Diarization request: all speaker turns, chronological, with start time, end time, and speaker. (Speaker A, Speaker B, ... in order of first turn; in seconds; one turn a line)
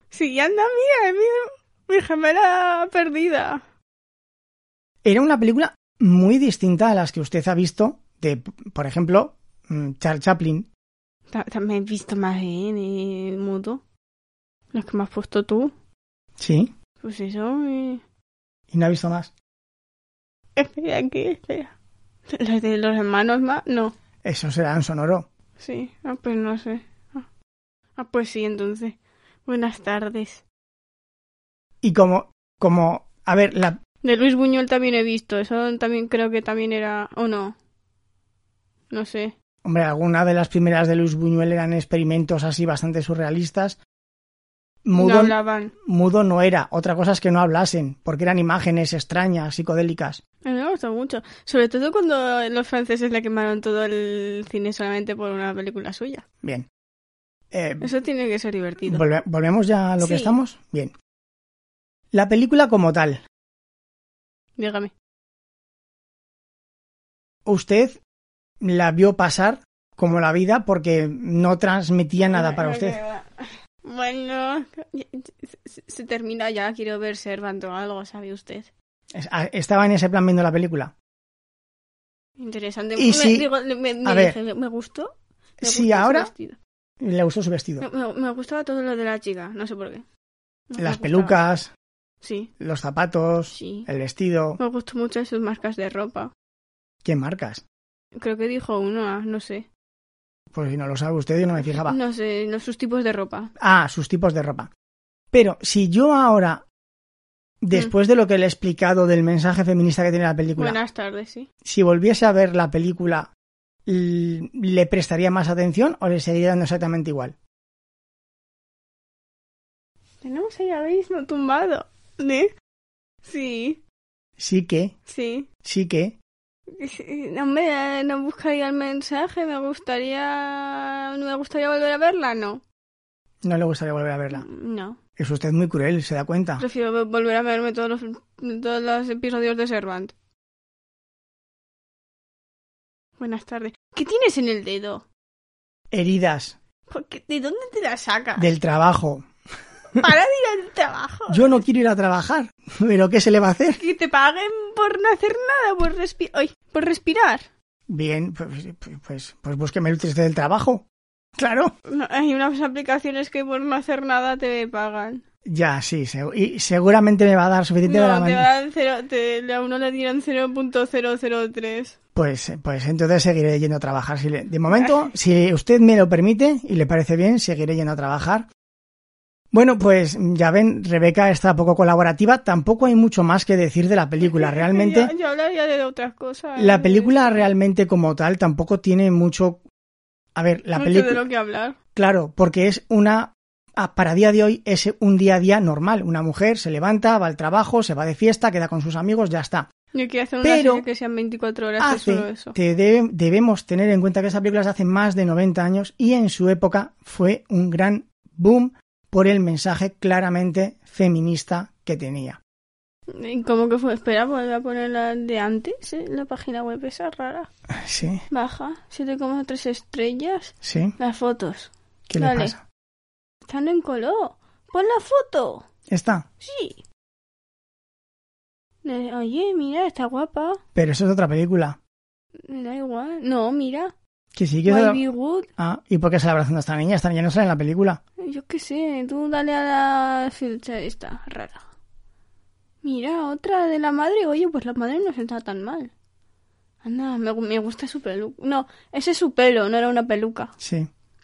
Speaker A: 0.1-3.6
Speaker B: 5.0-10.7
Speaker A: 11.3-13.8
Speaker A: 14.7-15.7
Speaker B: 16.4-16.7
Speaker A: 17.0-18.0
Speaker B: 18.7-19.3
Speaker A: 20.6-21.7
Speaker A: 22.3-23.9
Speaker B: 24.2-25.3
Speaker A: 25.6-27.3
Speaker A: 28.0-30.4
Speaker B: 31.8-33.8
Speaker A: 34.0-37.6
Speaker A: 38.9-39.3
Speaker B: 39.6-43.8
Speaker B: 44.9-50.2
Speaker A: 45.0-45.7
Speaker A: 50.4-56.2
Speaker B: 56.4-56.7
Speaker B: 57.5-57.9
Speaker A: 57.8-59.0
Speaker B: 58.9-60.9
Speaker A: 60.0-60.4
Speaker B: 62.1-63.2
Speaker A: 64.6-64.9
Speaker B: 67.5-68.0
Speaker B: 68.6-73.0
Speaker A: 72.3-78.7
Speaker B: 79.1-80.9
Speaker A: 82.4-86.6
Speaker B: 83.0-83.5
Speaker B: 84.0-84.4
Speaker B: 85.6-86.3
Speaker B: 87.0-87.9
Speaker A: 87.8-90.0
Speaker A: 90.7-91.4
Speaker B: 90.8-91.7
Speaker A: 92.2-92.5
Speaker B: 92.6-94.6
Speaker A: 93.5-93.9
Speaker A: 94.6-96.3
Speaker B: 97.0-97.6
Speaker A: 98.2-99.7
Speaker B: 100.5-102.0
Speaker A: 101.6-103.5
Speaker B: 103.6-104.7
Speaker B: 105.3-106.6
Speaker B: 107.6-110.8
Speaker A: 110.6-111.5
Speaker B: 111.6-113.3
Speaker B: 113.9-117.3
Speaker A: 120.2-122.5
Speaker A: 123.2-123.8
Speaker B: 124.4-124.9
Speaker A: 125.1-125.5
Speaker B: 125.6-126.2
Speaker A: 126.7-132.6
Speaker B: 133.4-134.4
Speaker A: 134.3-135.0
Speaker B: 135.2-136.6
Speaker A: 136.6-140.1
Speaker A: 143.2-145.0
Speaker B: 145.9-146.6
Speaker A: 146.9-148.5
Speaker B: 148.4-149.3
Speaker A: 150.0-151.6
Speaker B: 151.3-153.8
Speaker A: 153.8-157.4
Speaker B: 157.9-160.8
Speaker B: 161.4-161.7
Speaker A: 161.9-165.2
Speaker B: 165.5-168.5
Speaker A: 167.8-171.9
Speaker B: 172.2-178.5
Speaker A: 174.7-175.1
Speaker B: 179.5-185.1
Speaker A: 184.2-187.5
Speaker B: 186.6-189.6
Speaker B: 190.4-191.2
Speaker A: 190.8-191.8
Speaker B: 191.9-199.7
Speaker A: 199.9-202.6
Speaker B: 200.4-200.8
Speaker B: 201.8-212.4
Speaker A: 213.1-217.5
Speaker B: 217.8-218.2
Speaker A: 218.3-222.6
Speaker B: 220.6-220.9
Speaker B: 222.1-222.6
Speaker A: 223.5-225.7
Speaker B: 225.9-226.3
Speaker A: 226.4-226.8
Speaker A: 228.8-230.6
Speaker B: 230.8-231.8
Speaker A: 232.5-233.9
Speaker B: 234.4-235.0
Speaker A: 234.7-235.5
Speaker B: 235.6-238.0
Speaker A: 238.2-241.6
Speaker A: 242.8-245.9
Speaker A: 246.8-250.5
Speaker B: 250.6-250.9